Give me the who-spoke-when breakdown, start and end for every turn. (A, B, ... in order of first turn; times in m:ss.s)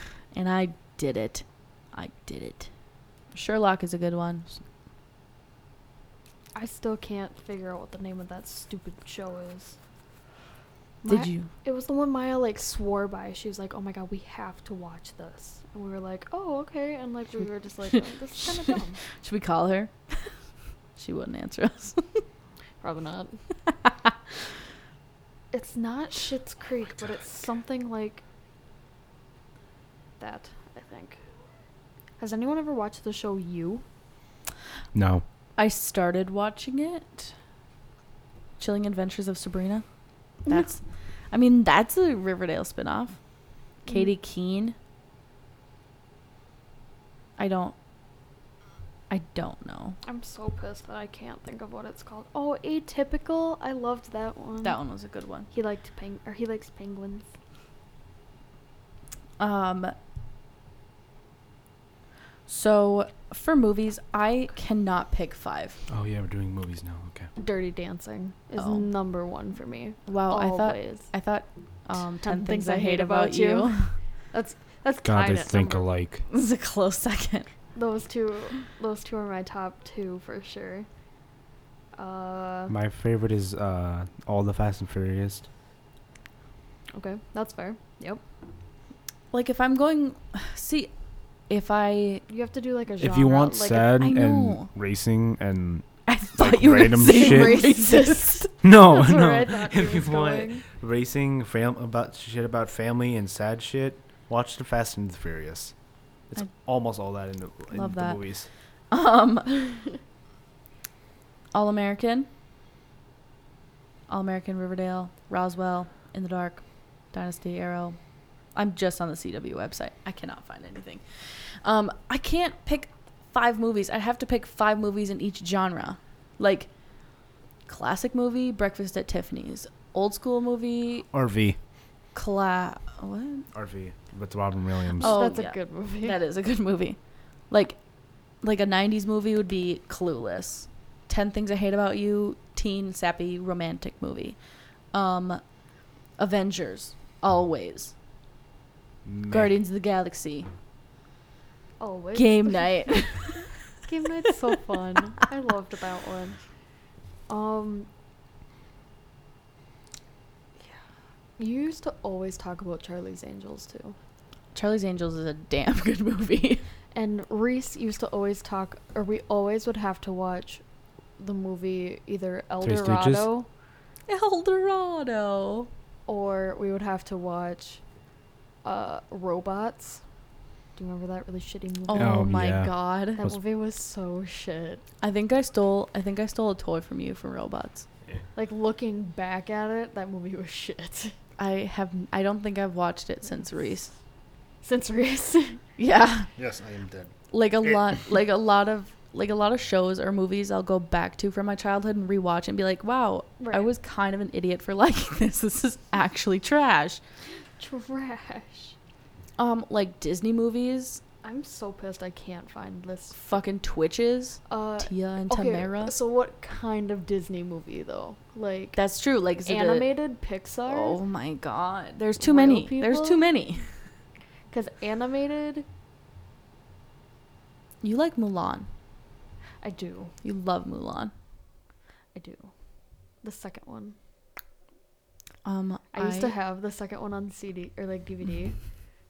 0:00.3-0:02.7 A
0:03.3-0:04.5 A
0:06.5-0:09.8 B
0:11.0-0:19.0 B
0:11.0-0:11.5 A
0:17.9-0:20.3 A
0:21.0-0:22.2 A
0:22.8-0:23.4 B
0:23.7-0:24.1 A
0:25.5-0:28.2 B
0:30.2-0:31.2 B
0:32.2-0:33.8 B
0:34.9-0:35.2 C
0:35.6-0:37.3 A
0:38.6-0:39.8 A
0:40.4-0:43.2 A
0:43.8-0:44.7 A
0:47.4-0:47.7 A
0:49.1-0:50.0 A
0:50.0-0:54.8 B
0:54.6-0:55.5 A
0:55.5-0:57.3 B
0:59.4-1:00.0 A
1:02.5-1:05.8 A
1:05.9-1:07.3 C
1:07.4-1:11.1 B
1:08.6-1:08.9 A
1:10.0-1:13.9 A
1:12.2-1:15.9 B
1:15.0-1:16.2 C
1:16.3-1:17.5 A
1:17.7-1:20.9 B
1:22.0-1:22.7 B
1:22.7-1:25.4 C
1:26.9-1:28.2 B
1:29.3-1:30.9 A
1:31.5-1:32.2 A
1:32.3-1:33.9 B
1:33.0-1:37.6 C
1:34.0-1:34.7 A
1:36.0-1:38.5 A
1:37.0-1:40.6 B
1:38.6-1:45.7 C
1:46.3-1:48.5 C
1:47.7-1:48.2 A
1:48.9-1:49.6 A
1:51.5-1:52.3 A
1:54.1-1:58.0 A
1:58.5-2:06.7 A
2:07.7-2:11.1 A
2:11.1-2:11.6 C
2:12.1-2:13.5 A
2:13.5-2:15.2 C
2:15.0-2:16.2 B
2:15.0-2:17.0 A
2:17.5-2:17.8 A
2:18.4-2:24.4 A
2:24.9-2:25.4 A
2:26.2-2:27.9 A
2:29.0-2:29.5 C
2:29.3-2:30.5 A
2:31.8-2:36.4 B
2:32.1-2:33.4 A
2:37.3-2:37.9 B
2:41.4-2:44.0 B
2:44.5-2:46.6 A
2:46.9-2:50.6 B
2:51.2-2:53.5 B
2:52.6-2:53.3 C
2:54.1-2:55.7 A
2:56.1-2:57.8 B
2:58.6-3:00.0 B
3:00.8-3:02.3 B
3:01.9-3:03.3 A
3:01.9-3:03.4 C
3:03.2-3:04.8 B
3:05.0-3:07.8 A
3:08.3-3:11.1 B
3:11.4-3:13.9 A
3:14.6-3:15.6 B
3:15.8-3:16.3 A
3:16.4-3:17.1 C
3:17.3-3:27.0 A
3:23.4-3:23.6 B
3:27.6-3:28.8 B
3:29.4-3:31.0 A
3:31.2-3:33.3 B
3:33.1-3:35.9 A
3:34.5-3:38.8 B
3:38.8-3:39.9 A
3:39.4-3:41.0 B
3:40.7-3:43.6 A
3:42.2-3:43.2 B
3:44.5-3:45.6 B
3:47.8-3:48.7 A
3:49.6-3:50.1 B
3:50.2-3:51.1 A
3:52.1-3:52.5 B
3:53.2-3:54.0 B
3:55.4-3:56.3 A
3:55.9-3:58.6 B